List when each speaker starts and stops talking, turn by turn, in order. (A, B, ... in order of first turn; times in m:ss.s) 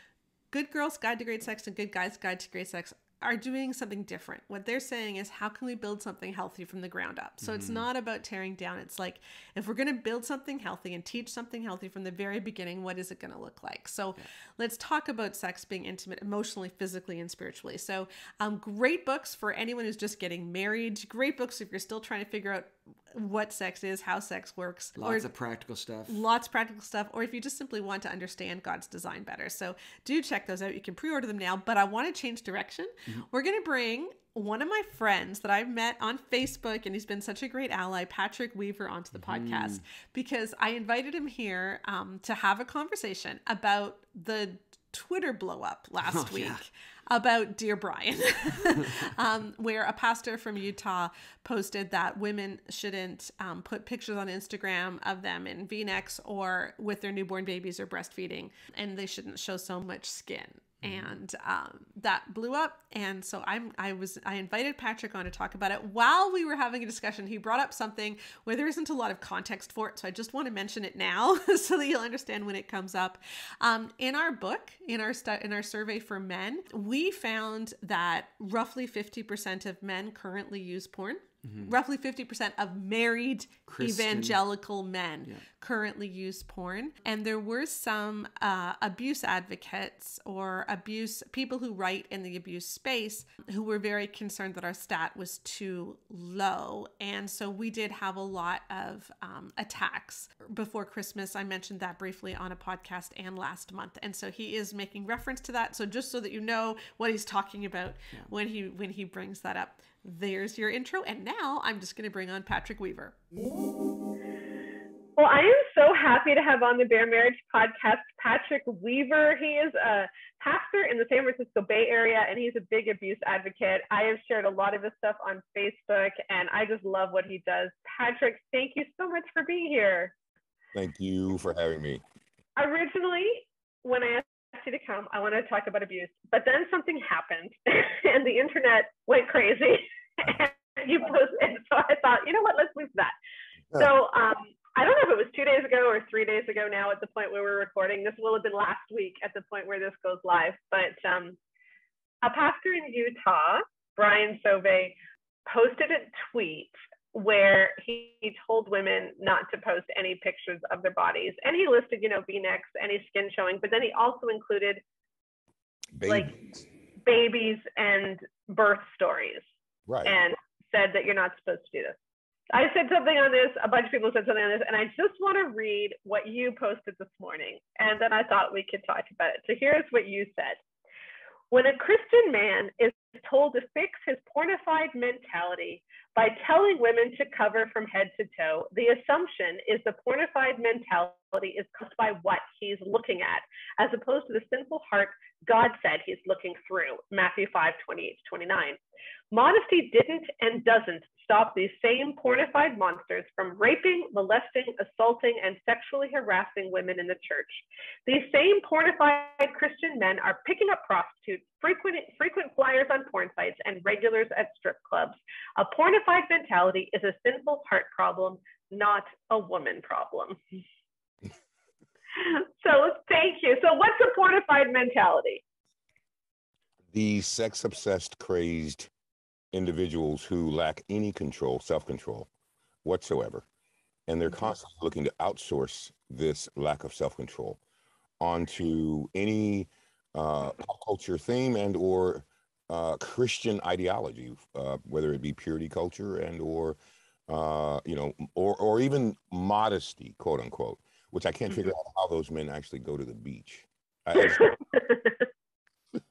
0:00.5-0:25.3 A
0:07.4-0:07.9 B
0:25.0-0:26.2 B
0:26.1-1:53.2 A
0:39.1-0:39.8 B
0:46.0-0:46.6 B
0:48.7-0:49.1 B
1:00.8-1:01.1 B
1:21.4-1:21.7 B
1:23.7-1:24.4 B
1:55.2-2:10.1 C
2:10.7-2:12.0 D
2:12.6-2:23.1 C
2:23.7-2:31.4 C
2:32.2-2:44.8 C
2:46.0-2:46.6 D
2:46.0-2:46.3 C
2:47.0-2:49.4 C
2:49.9-2:50.1 D
2:50.0-2:52.0 C
2:52.5-3:00.6 C
3:01.5-3:18.8 C
3:19.3-3:40.4 C
3:42.1-3:45.4 C
3:46.9-3:48.9 D
3:49.5-3:52.3 D
3:52.8-3:53.4 D
3:54.1-3:57.6 D
3:58.2-4:06.8 D
4:07.3-4:14.5 D
4:14.2-4:15.2 C